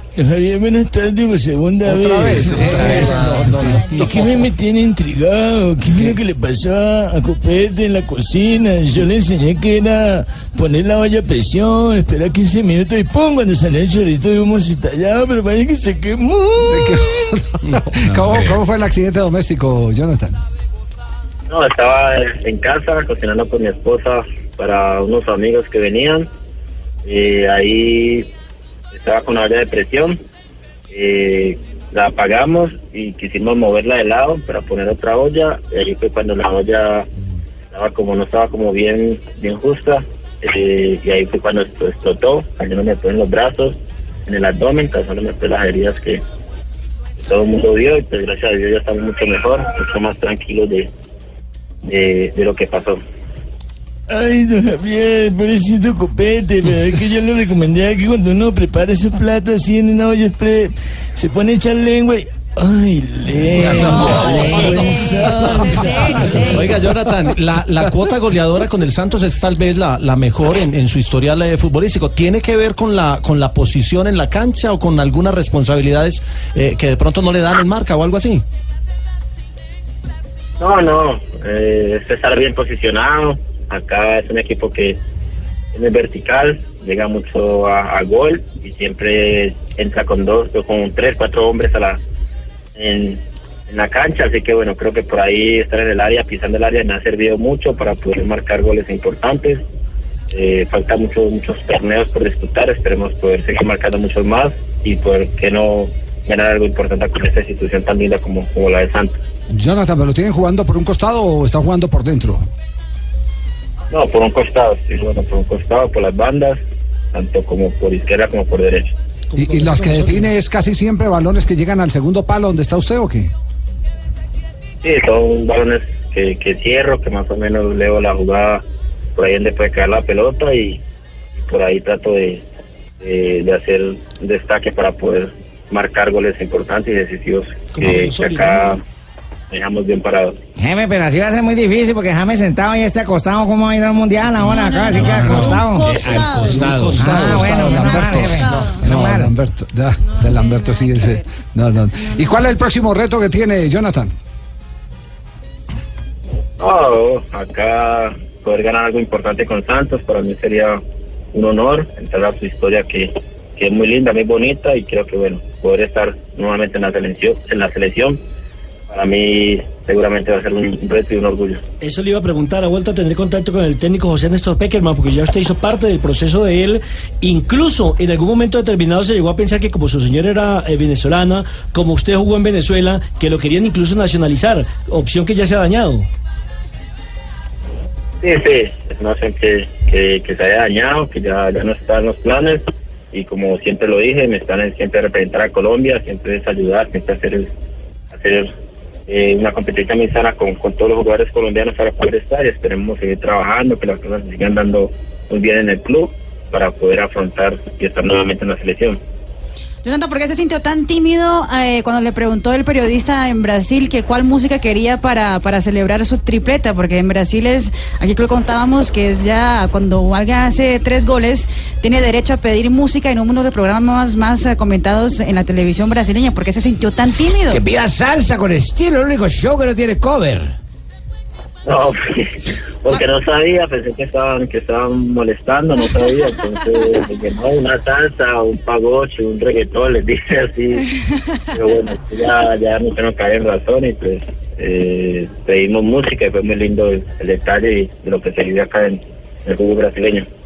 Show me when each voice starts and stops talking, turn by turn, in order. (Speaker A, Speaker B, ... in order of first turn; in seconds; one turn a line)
Speaker A: 0.2-3.3
Speaker B: 1.8-4.3
Speaker A: 3.9-17.0
Speaker B: 5.9-6.2
Speaker B: 16.6-20.4
Speaker C: 21.5-26.3
Speaker C: 27.0-28.3
Speaker C: 28.9-30.2
Speaker C: 30.9-37.1
Speaker C: 37.7-46.2
Speaker C: 47.2-50.9
Speaker C: 51.9-53.0
Speaker A: 54.1-66.5
Speaker D: 63.6-66.7
Speaker E: 66.4-78.4
Speaker C: 80.6-85.0
Speaker C: 85.7-92.0
Speaker C: 92.7-99.6
Speaker C: 100.3-109.2
Speaker B: 109.5-112.4
Speaker C: 113.9-116.6
Speaker C: 117.1-118.9
Speaker F: 119.3-120.3
Speaker B: 119.3-123.3
Speaker C: 124.8-128.6
Speaker C: 129.2-130.8
Speaker C: 131.4-132.4
Speaker C: 133.0-138.8
Speaker F: 137.7-138.7
Speaker C: 139.5-140.4
Speaker G: 140.6-149.3
Speaker D: 144.4-148.9
Speaker B: 145.1-145.6
Speaker B: 146.8-154.1
Speaker D: 150.0-151.2
Speaker D: 151.9-152.5
Speaker C: 156.6-160.8
Speaker C: 161.3-168.2
Speaker C: 168.9-171.6
Speaker F: 171.8-186.1
Speaker C: 188.2-197.5
Speaker C: 198.1-198.5
Speaker C: 199.1-209.0
Speaker D: 209.8-227.6
Speaker G: 227.5-230.5
Speaker C: 231.6-240.8
Speaker C: 241.5-250.3